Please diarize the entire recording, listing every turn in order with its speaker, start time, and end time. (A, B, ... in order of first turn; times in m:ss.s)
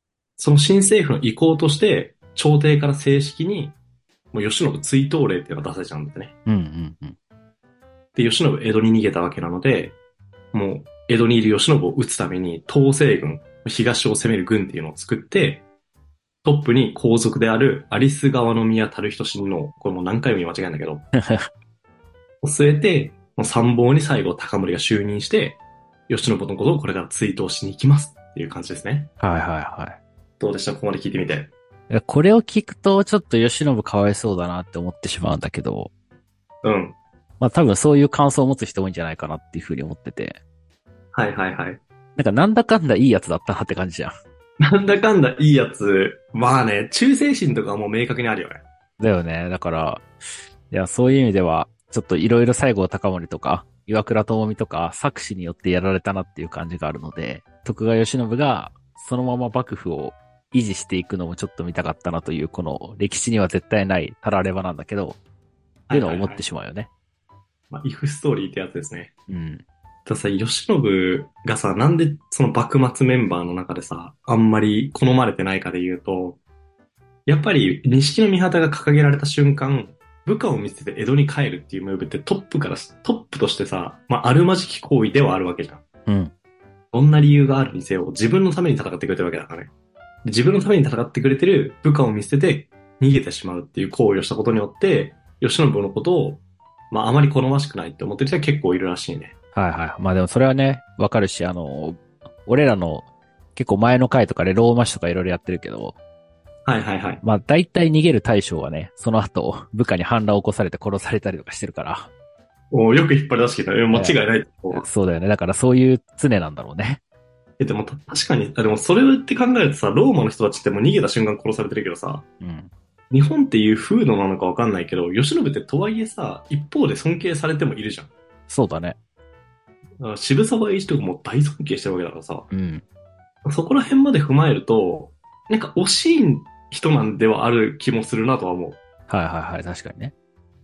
0:00.4-0:03.8 A
0:04.3-0:06.3 A
0:06.5-0:07.2 B
0:08.1-0:10.0 A
0:10.5-0:15.6 A
0:16.4-0:21.1 A
0:21.2-0:21.5 B
0:22.4-0:29.1 A
0:29.2-0:30.0 B
0:30.4-0:31.5 A
0:31.9-0:35.9 B
0:36.6-0:37.0 A
0:37.4-0:40.4 B
0:41.1-0:41.8 A
0:42.2-0:44.1 B
0:44.6-0:48.6 A
0:49.0-0:50.1 B
0:50.7-1:05.2 B
1:05.9-1:06.4 A
1:05.9-1:06.9 B
1:07.7-1:09.1 A
1:09.3-1:09.6 B
1:10.0-1:16.4 A
1:17.3-1:25.8 A
1:26.0-1:26.3 B
1:26.9-1:29.7 A
1:30.2-1:39.3 A
1:39.5-1:46.0 B
1:46.6-1:47.2 A
1:47.2-1:52.1 B
1:52.7-1:54.8 A
1:53.9-1:54.2 B
1:54.7-1:57.0 B
1:57.6-2:02.2 A
2:02.4-2:02.7 B
2:03.1-2:08.1 A
2:08.5-2:09.0 B
2:10.0-2:12.5 A
2:12.5-2:12.8 B
2:13.4-2:18.8 A
2:19.1-2:20.1 B